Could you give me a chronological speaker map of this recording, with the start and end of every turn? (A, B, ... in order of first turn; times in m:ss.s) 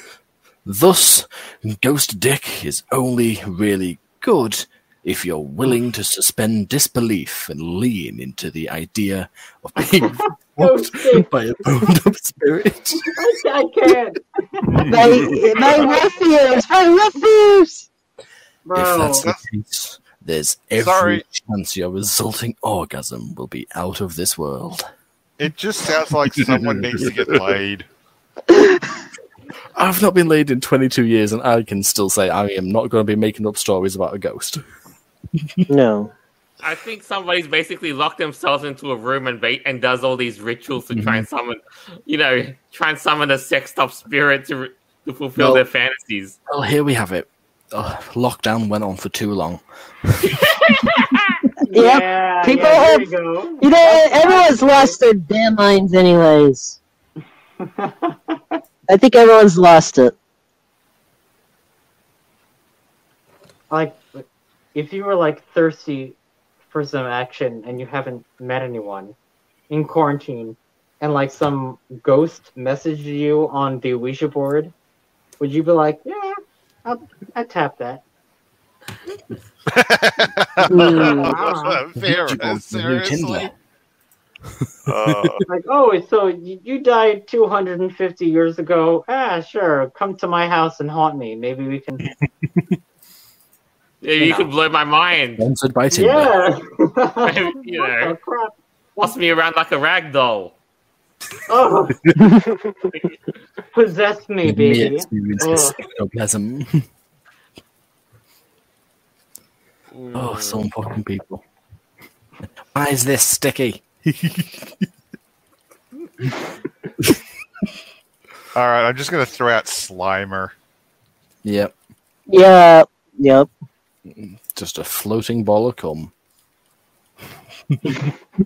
0:00.6-0:13.3 A
0:09.8-0:11.3 B
0:13.2-0:16.2 B
0:14.9-0:17.9 C
0:18.6-0:19.3 B
0:18.8-0:24.8 A
0:20.8-0:21.2 D
0:25.4-0:27.9 D
0:26.3-0:27.4 A
0:29.8-0:34.6 A
0:35.4-0:35.6 A
0:35.7-0:36.1 C
0:36.6-0:46.4 E
0:40.9-0:41.3 A
0:45.4-0:45.6 A
0:46.5-0:50.4 A
0:50.3-0:51.4 E
0:51.7-0:53.1 C
0:51.7-0:55.0 B
0:53.6-0:56.8 C
0:57.6-0:58.6 B
0:58.9-1:00.1 C
1:03.7-1:04.2 B
1:04.8-1:06.2 B
1:06.7-1:09.2 B
1:09.7-1:14.7 B
1:15.4-1:18.0 B
1:19.7-1:23.5 D
1:20.7-1:21.3 C
1:20.8-1:21.8 B
1:22.0-1:23.5 A
1:24.6-1:25.3 A
1:24.9-1:25.4 D
1:25.5-1:32.1 B
1:32.4-1:32.7 A
1:34.0-1:35.4 E
1:34.2-1:34.5 B
1:35.4-1:36.3 A
1:35.9-1:38.5 B
1:37.2-1:38.2 E
1:39.0-1:40.5 E
1:41.5-1:42.0 B
1:42.2-1:42.6 C
1:43.7-1:45.8 B
1:44.4-1:46.9 A
1:49.9-1:50.6 E
1:50.1-1:51.4 A
1:52.7-1:54.9 A
1:58.6-2:00.5 D
2:01.4-2:01.7 A
2:02.3-2:03.5 C
2:04.1-2:06.1 A
2:07.7-2:08.1 A